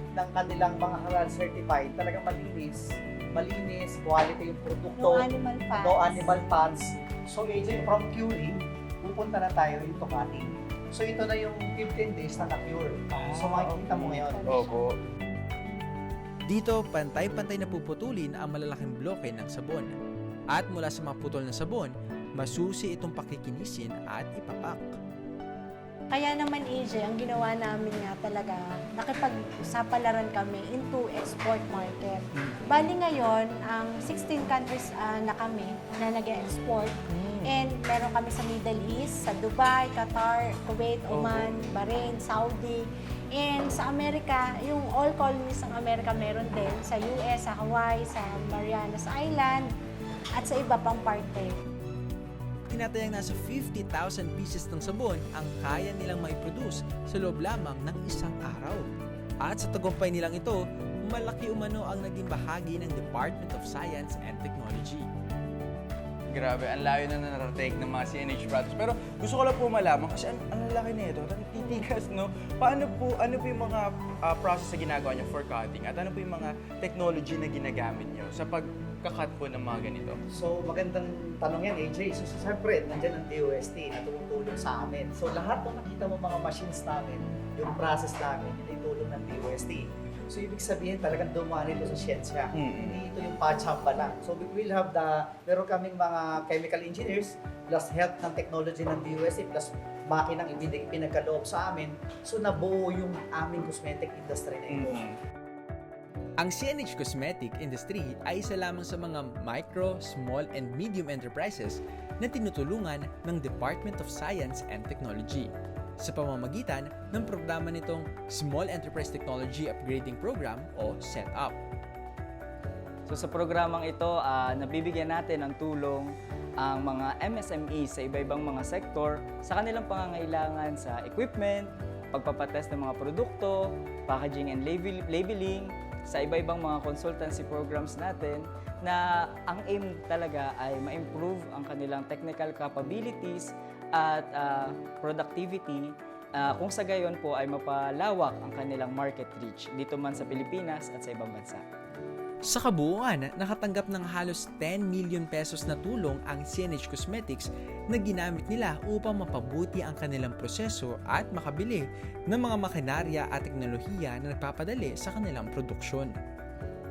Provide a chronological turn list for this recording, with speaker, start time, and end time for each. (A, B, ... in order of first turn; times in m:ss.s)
0:00.2-0:14.5 A
0:04.9-0:06.4 B
0:13.1-0:15.0 C
0:14.1-0:14.9 B
0:16.4-0:19.9 D
0:20.5-0:24.8 D
0:26.1-0:49.7 B
0:37.1-0:37.6 C
0:41.1-0:41.8 C
0:50.4-0:51.5 B
0:52.7-0:58.9 D
0:59.4-1:05.1 D
1:06.3-1:20.2 C
1:20.3-1:45.1 A
1:32.5-1:33.0 C
1:44.7-1:45.2 C
1:46.4-2:01.6 D
2:03.1-2:31.6 E
2:32.4-2:46.2 D